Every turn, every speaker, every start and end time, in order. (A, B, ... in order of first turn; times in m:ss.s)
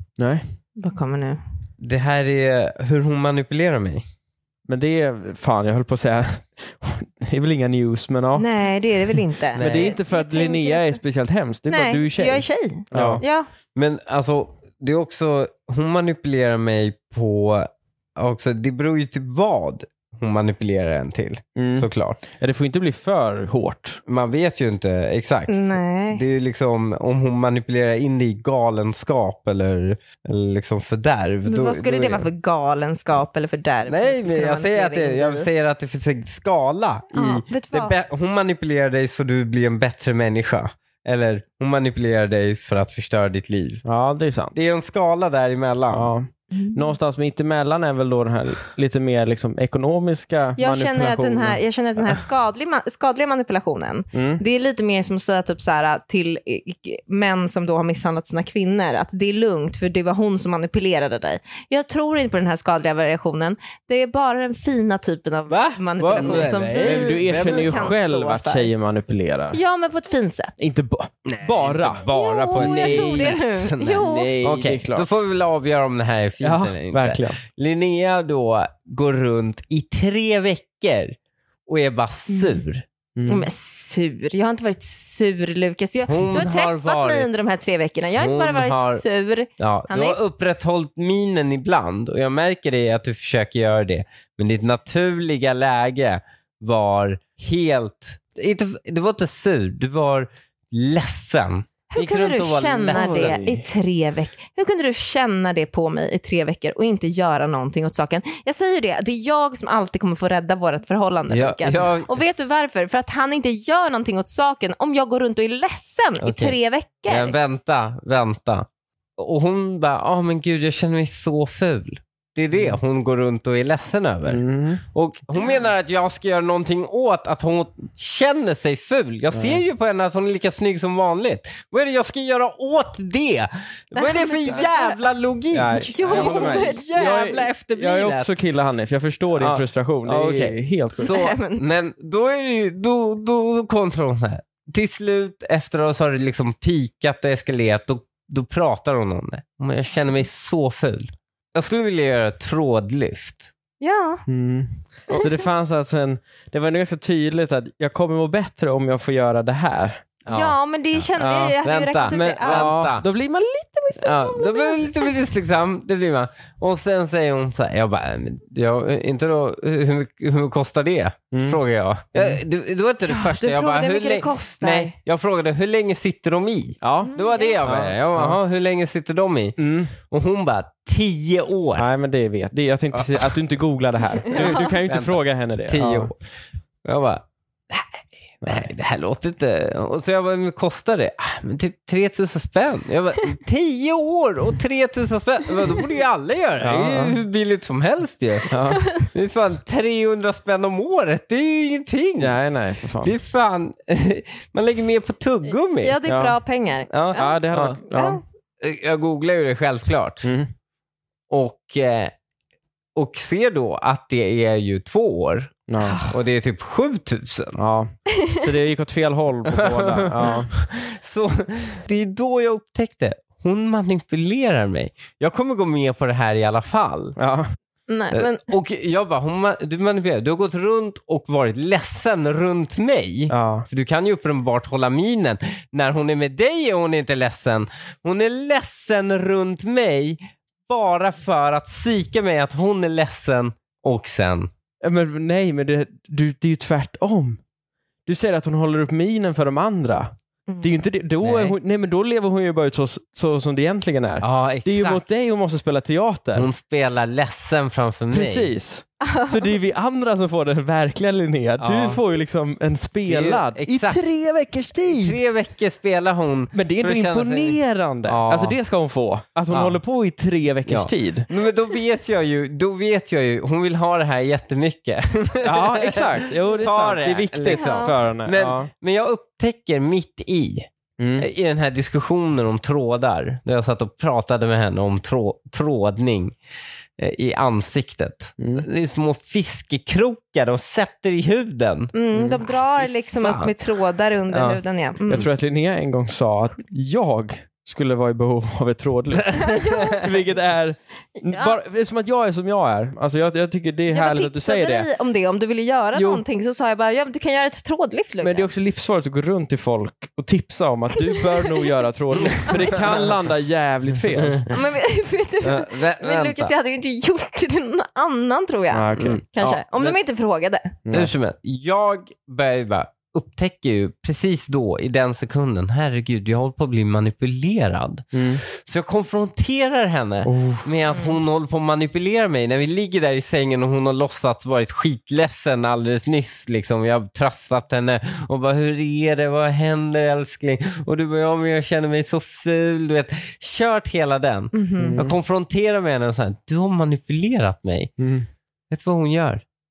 0:00.2-0:00.6 A
0:00.8-0:01.4 B
0:01.8-0:04.0 C
0:04.7-0:08.5 A
0:08.4-0:11.0 B
0:09.2-0:13.2 A
0:09.5-0:10.0 C
0:11.7-0:13.5 B
0:12.9-0:22.2 C
0:21.6-0:24.0 A
0:24.1-0:32.3 C
0:25.5-0:26.2 B
0:31.5-0:35.5 B
0:33.9-0:43.8 C
0:37.1-0:37.9 B
0:43.8-0:44.6 A
0:44.5-0:46.1 C
0:45.9-0:51.6 A
0:46.5-0:47.0 B
0:50.6-1:08.7 B
0:54.1-0:54.4 A
1:05.5-1:08.0 C
1:06.2-1:09.6 A
1:09.5-1:10.6 B
1:10.6-1:15.1 A
1:11.3-1:21.2 C
1:12.1-1:14.3 B
1:16.4-1:17.4 A
1:21.7-1:22.9 C
1:22.3-1:22.6 B
1:23.2-1:23.5 A
1:23.3-1:30.2 B
1:26.1-1:27.3 C
1:28.2-1:29.0 C
1:29.6-1:43.6 C
1:41.9-1:57.4 B
1:43.0-1:43.3 A
1:51.3-1:52.2 C
1:56.2-2:18.4 C
2:04.3-2:04.8 A
2:09.3-2:09.6 A
2:13.9-2:15.1 B
2:15.5-2:21.1 A
2:15.7-2:16.9 B
2:19.4-2:33.5 C
2:21.0-2:21.6 B
2:33.8-2:34.2 B
2:34.3-2:40.1 A
2:40.3-2:40.6 C
2:40.3-2:42.7 B
2:41.1-2:41.6 A
2:41.6-2:43.1 C
2:42.4-2:44.0 A
2:43.9-2:45.2 B
2:44.0-3:01.9 C
2:51.3-2:51.6 A
2:53.1-2:55.0 B
2:56.8-2:58.4 A
2:57.0-2:57.6 B
2:59.6-2:59.9 A
3:01.8-3:06.1 A
3:02.9-3:03.3 C
3:04.3-3:06.2 C
3:04.3-3:04.8 B
3:06.8-3:22.4 C
3:16.6-3:17.2 A
3:18.5-3:18.8 A
3:18.7-3:19.1 B
3:22.2-3:23.2 A
3:23.0-3:26.0 C
3:25.8-3:28.2 B
3:26.1-3:26.4 A
3:26.9-3:27.8 C
3:27.2-3:28.2 A
3:28.6-3:30.3 C
3:30.2-3:30.5 A
3:31.3-3:32.1 C
3:33.0-3:35.6 C
3:35.7-3:36.1 A
3:35.8-3:36.2 B
3:36.1-3:37.6 C
3:37.6-3:40.5 A
3:38.1-3:38.5 B
3:39.5-3:47.2 C
3:47.2-3:47.5 A
3:47.9-3:48.5 B
3:48.1-4:04.5 C
3:53.3-3:53.7 A
4:04.8-4:07.4 A
4:08.1-4:16.5 A
4:10.5-4:10.8 B
4:11.2-4:11.6 C
4:14.2-4:15.0 C
4:16.4-4:18.5 C
4:18.1-4:25.2 A
4:19.0-4:19.6 B
4:21.6-4:22.0 C
4:23.1-4:24.0 C
4:24.8-4:28.6 C
4:26.5-4:31.3 A
4:29.5-4:29.8 C
4:30.7-4:46.4 C
4:35.4-4:38.7 A
4:36.4-4:36.7 B
4:37.4-4:38.0 B
4:41.0-4:41.3 A
4:47.0-4:51.9 C
4:48.4-4:48.7 A
4:51.9-4:55.3 B
4:52.1-4:52.4 A
4:52.8-4:53.6 C
4:54.3-4:55.3 C
4:55.1-5:04.9 A
4:59.3-5:00.1 B
5:01.2-5:01.6 B
5:03.9-5:08.5 B
5:05.9-5:06.2 A
5:08.2-5:14.5 A
5:11.1-5:11.7 B
5:12.2-5:13.1 C
5:12.5-5:13.1 B
5:14.5-5:20.8 B
5:15.4-5:16.5 C
5:18.7-5:19.6 A
5:19.0-5:19.2 C
5:20.9-5:21.1 A
5:20.9-5:47.9 C
5:28.1-5:28.4 A
5:30.2-5:30.7 A
5:44.5-5:45.0 B
5:44.8-5:45.2 A
5:48.0-5:48.3 A
5:48.7-5:49.4 C